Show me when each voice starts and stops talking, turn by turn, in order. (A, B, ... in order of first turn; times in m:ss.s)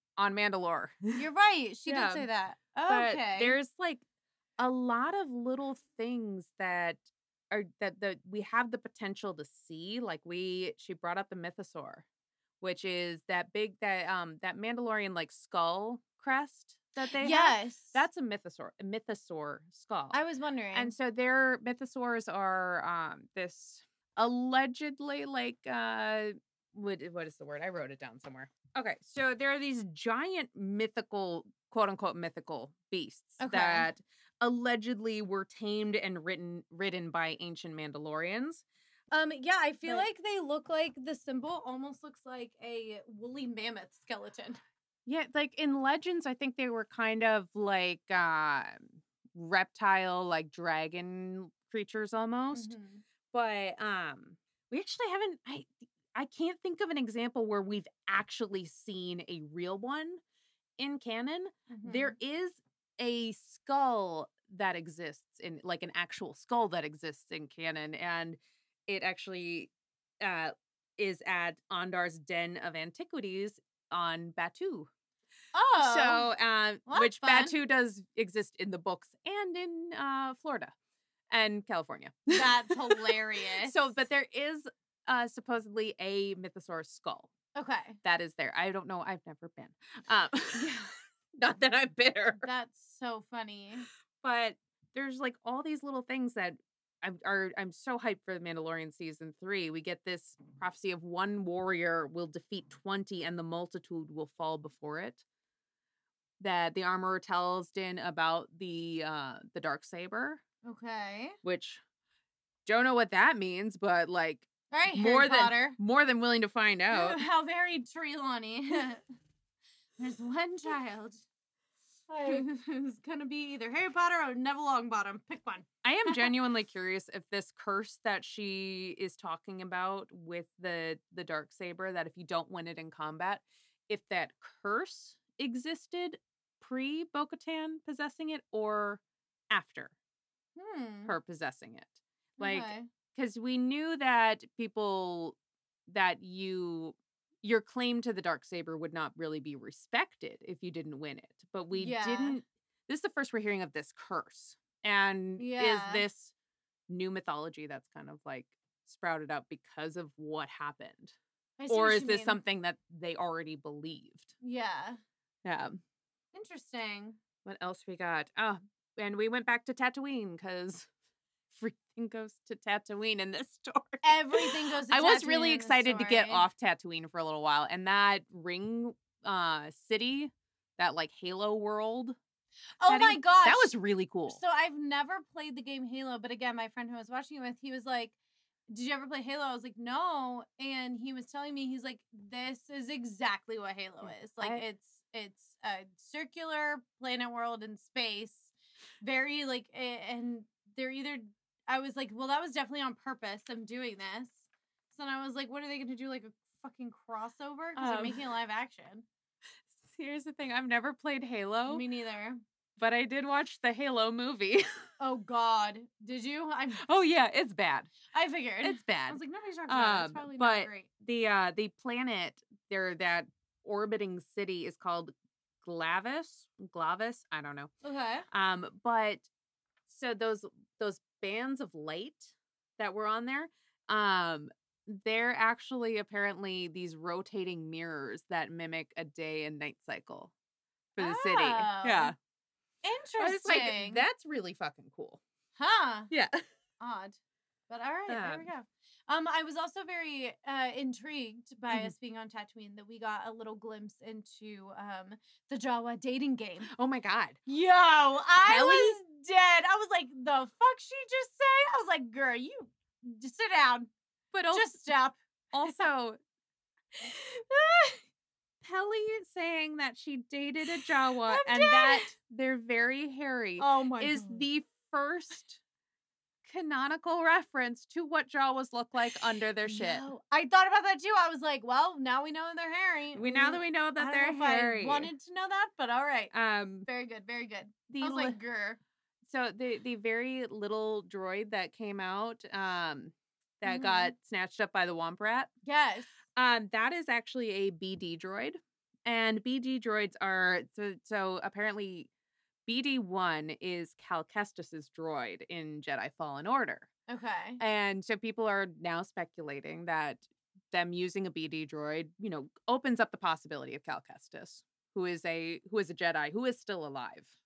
0:00.2-0:01.2 A
0:01.2-0:03.6 B
0:01.8-0:02.3 A
0:02.9-0:04.0 A
0:04.6-0:12.0 A
0:12.6-0:20.2 A
0:17.2-0:18.0 B
0:20.1-0:20.9 B
0:20.7-0:38.6 A
0:33.4-0:33.9 B
0:39.1-0:44.6 B
0:45.0-0:52.7 A
0:52.5-0:53.0 B
0:53.3-1:00.2 A
1:00.8-1:14.9 A
1:01.7-1:02.2 B
1:15.5-1:16.3 B
1:15.8-1:20.7 A
1:16.8-1:17.5 B
1:21.3-1:23.1 A
1:22.3-1:23.9 B
1:23.6-1:27.3 A
1:27.6-1:28.0 B
1:28.0-1:32.5 A
1:32.4-1:33.9 B
1:34.2-1:45.2 A
1:46.4-1:50.4 A
1:50.6-1:51.4 B
1:51.4-1:51.8 A
1:52.6-1:57.2 A
1:54.7-1:55.8 B
1:56.9-1:59.0 B
2:00.0-2:01.2 B
2:02.1-2:06.3 B
2:05.8-2:19.9 A
2:20.6-2:21.1 B
2:21.0-2:25.4 A
2:22.4-2:22.9 B
2:25.9-2:36.3 A
2:31.7-2:32.4 B
2:35.4-2:36.0 B
2:36.9-2:41.2 A
2:41.6-2:42.4 B
2:41.7-2:44.3 A
2:44.4-2:45.0 B
2:45.4-2:45.8 A
2:46.3-2:47.2 B
2:47.4-2:50.9 A
2:51.5-3:02.2 A
2:54.0-2:56.4 B
3:02.8-3:03.7 B
3:02.9-3:04.4 A
3:04.3-3:08.1 B
3:08.7-3:29.0 B
3:14.0-3:14.6 A
3:27.8-3:28.2 A
3:29.7-3:31.8 A
3:31.7-3:32.4 B
3:32.8-3:34.6 A
3:35.0-3:36.9 B
3:36.8-3:37.9 A
3:38.1-3:40.9 B
3:38.6-3:47.7 A
3:47.8-3:48.2 B
3:48.3-3:49.3 A
3:49.9-4:00.3 A
4:01.0-4:02.2 A
4:01.0-4:02.1 B
4:02.8-4:04.0 B
4:03.2-4:05.2 A
4:05.6-4:06.1 B
4:06.1-4:06.4 A
4:06.8-4:07.2 B
4:07.7-4:16.7 B
4:08.1-4:08.5 A
4:16.7-4:17.4 A
4:17.5-4:23.9 B
4:18.4-4:19.0 A
4:24.3-4:24.9 A
4:24.5-4:25.8 B
4:25.5-4:26.2 A
4:27.0-4:28.0 B
4:28.6-4:35.6 A
4:30.8-4:32.1 B
4:33.6-4:34.4 B
4:36.4-4:40.0 A
4:39.6-4:46.3 B
4:43.1-4:45.1 A
4:46.3-4:46.9 A
4:46.8-4:48.8 B
4:47.9-4:48.4 A
4:49.2-4:55.5 A
4:53.6-4:54.1 B
4:55.6-4:56.1 B
4:56.4-5:02.1 A
5:02.6-5:06.9 A
5:07.1-5:07.6 B
5:07.6-5:17.3 A